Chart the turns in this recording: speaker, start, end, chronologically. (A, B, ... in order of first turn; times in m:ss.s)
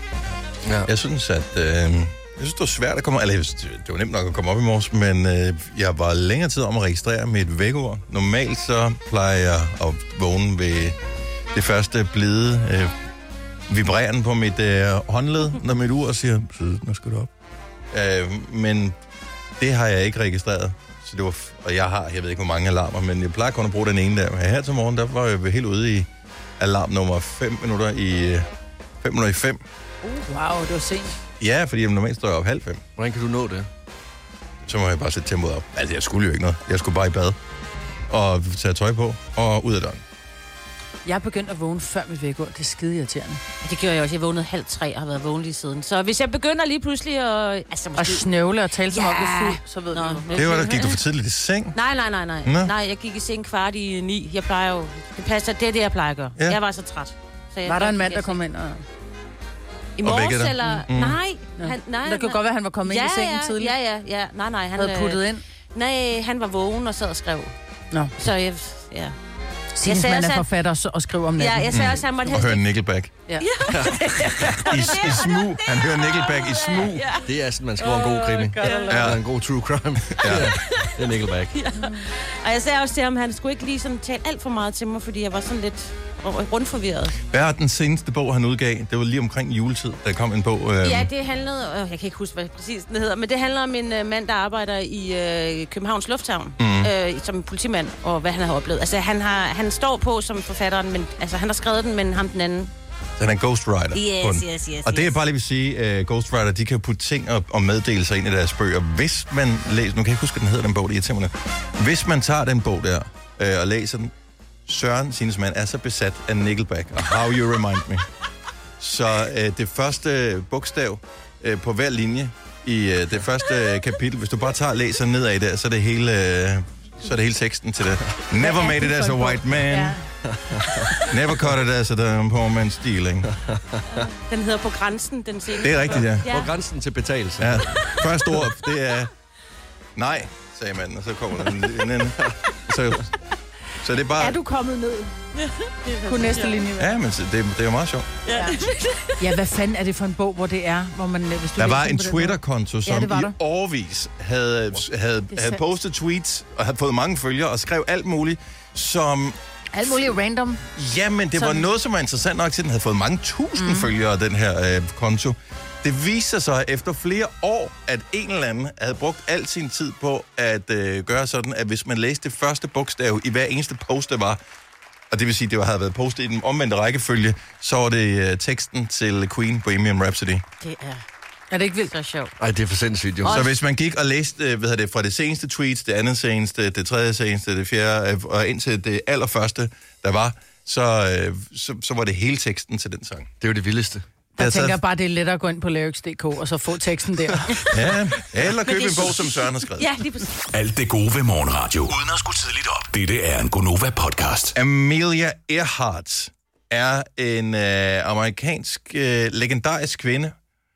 0:00.8-0:11.0 A
0:11.5-0:12.9 A
0:13.7-0:17.3 A
0:17.9-0:19.0 A
0:19.6-0:26.1 A
0:26.6-0:28.5 A
0:29.0-0:29.6 A
0:30.2-0:31.2 B
0:31.4-0:32.8 A
0:33.0-0:33.7 C
0:34.6-0:37.4 A
0:38.1-0:40.0 A
0:41.0-0:43.4 B
0:43.6-0:48.3 D
0:48.0-0:50.5 B
0:48.9-0:51.0 D
0:50.3-0:51.8 A
0:51.7-0:58.4 D
0:52.4-0:52.7 A
0:57.6-0:58.8 B
1:00.0-1:07.5 D
1:00.0-1:01.2 A
1:01.6-1:03.7 B
1:04.8-1:05.4 B
1:08.2-1:09.2 D
1:09.7-1:11.8 B
1:09.8-1:10.5 D
1:11.4-1:12.6 D
1:11.7-1:13.1 A
1:13.3-1:15.1 B
1:13.4-1:17.3 D
1:14.6-1:17.1 A
1:17.2-1:21.6 C
1:17.8-1:19.1 B
1:18.6-1:18.9 D
1:18.9-1:19.2 A
1:20.2-1:20.5 A
1:20.6-1:20.9 D
1:21.5-1:27.2 D
1:27.3-1:31.1 A
1:30.8-1:42.7 D
1:36.6-1:36.9 A
1:43.2-1:54.1 A
1:43.9-1:45.2 D
1:54.6-1:58.1 A
1:58.8-2:10.0 A
2:08.4-2:10.1 B
2:10.2-2:11.0 C
2:11.1-2:13.3 A
2:13.3-2:14.1 C
2:14.1-2:16.5 D
2:15.6-2:16.2 A
2:16.2-2:18.0 C
2:17.4-2:19.1 A
2:20.0-2:23.1 A
2:23.8-2:24.4 A
2:24.2-2:25.2 B
2:25.4-2:26.6 D
2:26.0-2:27.0 B
2:26.8-2:28.2 A
2:28.3-2:29.2 D
2:28.3-2:33.3 B
2:31.6-2:40.1 A
2:35.3-2:35.6 B
2:39.7-2:40.6 B
2:40.7-2:54.4 A
2:41.4-2:41.6 B
2:43.6-2:43.9 B
2:55.1-3:00.4 A
3:00.6-3:01.0 D
3:01.5-3:01.9 B
3:01.9-3:02.3 D
3:02.4-3:03.4 C
3:03.2-3:03.5 D
3:03.2-3:13.3 A
3:13.4-3:14.0 C
3:14.4-3:17.6 B
3:14.4-3:14.8 A
3:17.7-3:19.9 A
3:18.6-3:20.3 D
3:20.5-3:24.6 E
3:24.5-3:30.4 A